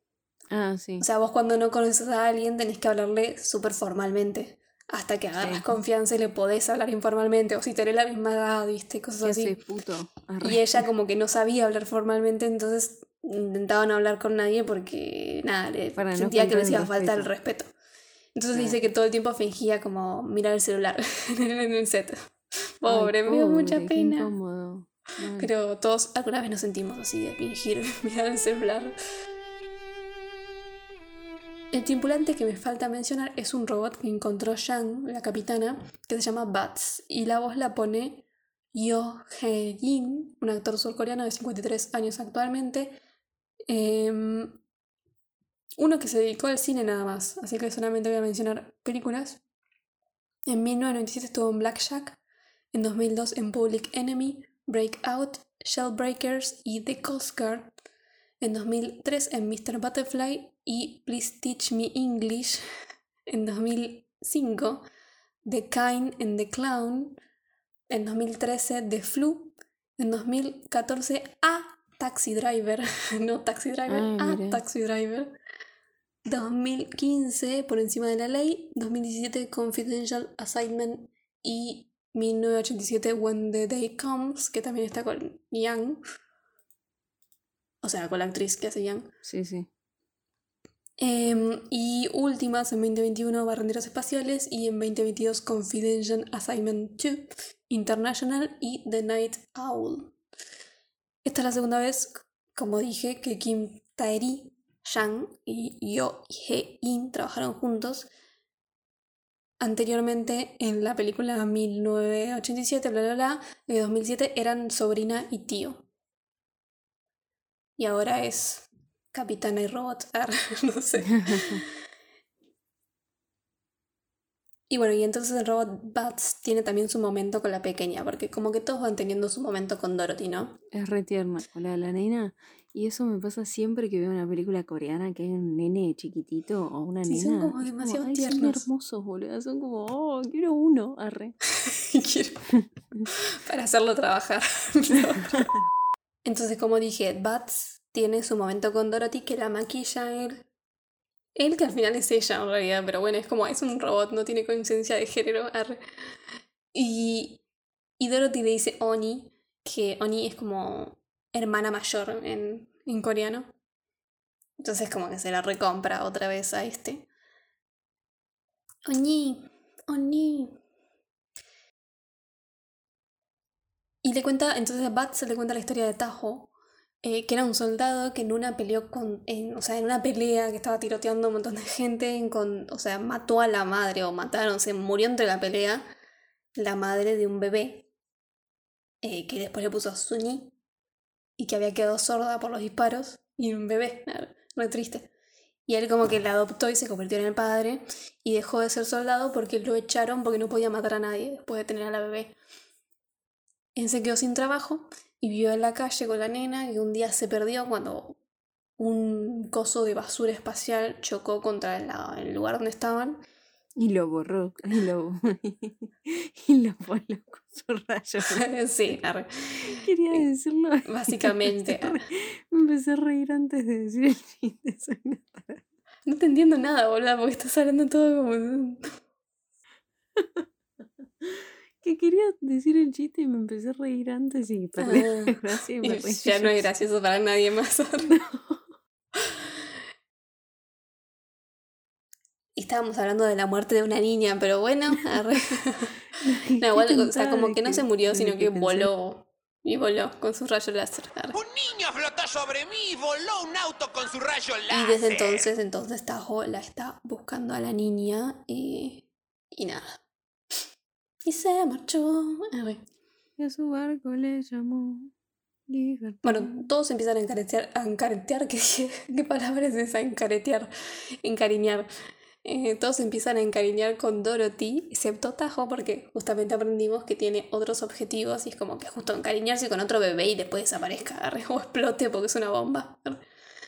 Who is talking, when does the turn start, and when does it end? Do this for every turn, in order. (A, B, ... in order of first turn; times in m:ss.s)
0:00.5-0:01.0 A
0:01.0-0:09.6 B
0:05.4-0:05.6 A
0:09.2-0:10.8 A
0:10.4-0:17.7 B
0:15.9-0:17.3 A
0:18.3-0:24.3 B
0:18.5-0:18.8 A
0:22.8-0:25.5 A
0:25.4-0:28.9 B
0:31.7-0:43.0 B
0:43.7-0:44.6 B
0:45.8-0:49.4 B
0:50.5-0:52.2 B
0:52.7-0:57.7 B
0:58.4-1:02.6 B
1:03.3-1:04.8 B
1:05.4-1:07.2 B
1:07.9-1:15.3 B
1:13.9-1:14.6 A
1:16.2-1:26.0 B
1:27.8-1:29.1 B
1:29.2-1:29.7 A
1:31.0-1:40.1 B
1:41.2-1:48.1 B
1:49.6-1:55.8 B
1:57.8-2:01.6 B
2:01.1-2:01.6 A
2:04.7-2:10.6 B
2:10.7-2:21.4 A
2:17.0-2:18.7 B
2:21.7-2:22.5 B
2:22.6-2:23.0 A
2:23.4-2:25.5 B
2:26.2-2:30.4 B
2:31.4-2:35.8 B
2:36.7-2:37.4 B
2:38.0-2:43.5 B
2:44.6-2:47.1 B
2:48.8-2:50.6 B
2:54.0-2:56.5 B
2:57.0-3:05.8 B
3:06.6-3:07.9 B
3:09.0-3:10.5 B
3:11.4-3:15.1 B
3:15.7-3:22.3 B
3:23.8-3:28.2 B
3:28.8-3:33.2 B
3:33.8-3:38.4 A
3:38.3-3:40.2 B
3:39.7-3:45.6 A
3:40.9-3:42.0 B
3:46.0-3:48.8 B
3:50.2-3:50.4 A
3:51.2-3:56.6 A
3:54.8-3:58.2 B
3:58.1-3:58.6 A
4:02.6-4:05.9 B
4:06.2-4:08.9 A
4:06.6-4:11.4 B
4:11.6-4:14.4 C
4:14.7-4:20.0 B
4:21.2-4:22.8 B
4:23.4-4:25.1 A
4:25.7-4:26.5 A
4:26.2-4:30.7 B
4:31.2-4:31.9 B
4:32.4-4:43.2 B